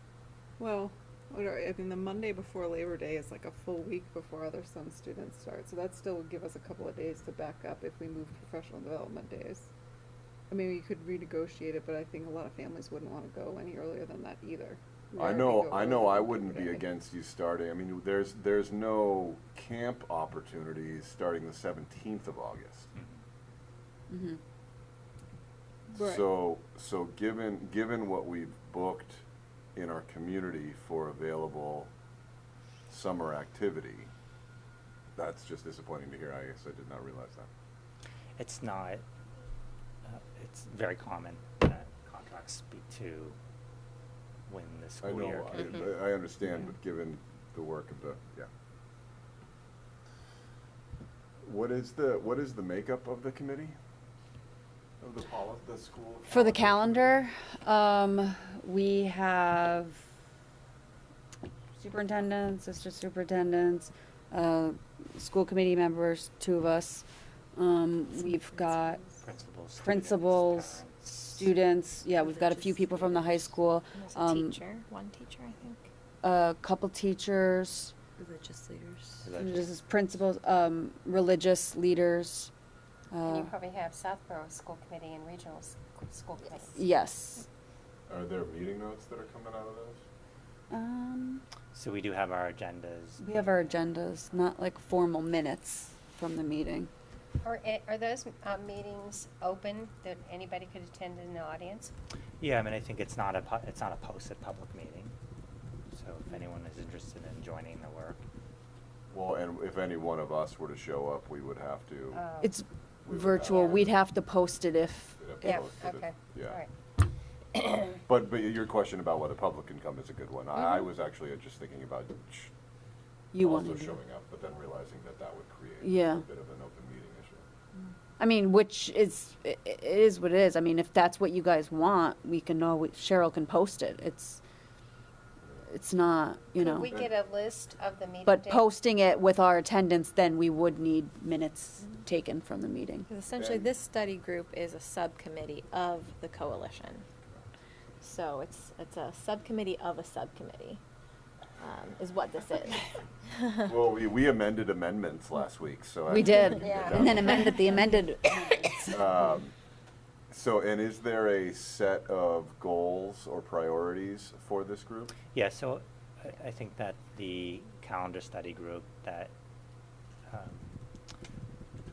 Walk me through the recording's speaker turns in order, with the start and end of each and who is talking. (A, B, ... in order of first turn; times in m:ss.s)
0:00.6-0:09.7 A
0:10.5-0:16.8 A
0:15.2-0:22.9 B
0:24.1-0:24.4 C
0:25.9-0:26.2 A
0:25.9-0:29.2 B
0:29.8-0:31.9 B
0:32.9-0:34.1 B
0:35.2-0:37.5 B
0:38.4-0:39.0 D
0:40.0-0:43.4 D
0:44.5-0:45.7 D
0:45.0-0:48.5 B
0:51.4-0:53.8 B
0:55.0-0:57.2 B
0:56.3-1:00.1 C
1:01.8-1:09.0 C
1:08.2-1:09.1 E
1:09.2-1:11.5 D
1:09.8-1:14.6 C
1:12.2-1:15.9 E
1:16.2-1:17.9 C
1:18.2-1:19.2 E
1:19.2-1:19.7 D
1:19.4-1:22.5 C
1:23.1-1:23.5 C
1:23.2-1:26.8 F
1:26.7-1:27.4 C
1:28.1-1:30.0 B
1:30.7-1:31.4 C
1:31.7-1:33.2 D
1:33.2-1:36.9 C
1:37.4-1:41.9 F
1:42.4-1:45.2 D
1:45.9-1:48.2 D
1:49.1-1:52.2 B
1:52.1-1:52.5 F
1:52.4-1:55.2 C
1:53.0-1:54.0 B
1:55.2-1:56.6 B
1:55.4-1:56.7 F
1:57.8-2:02.5 B
2:03.3-2:04.0 C
2:03.4-2:07.4 B
2:05.8-2:06.2 C
2:08.2-2:14.4 C
2:15.7-2:16.9 C
2:16.6-2:18.6 F
2:16.8-2:17.1 B
2:18.2-2:23.1 C
2:23.1-2:27.0 E
2:23.4-2:23.7 B
2:28.0-2:30.8 E
2:31.6-2:33.6 E
2:33.6-2:37.7 B
2:36.1-2:39.1 C
2:36.6-2:37.5 F
2:38.9-2:39.5 B
2:40.3-2:45.2 B
2:45.3-2:49.3 D
2:50.3-2:50.7 D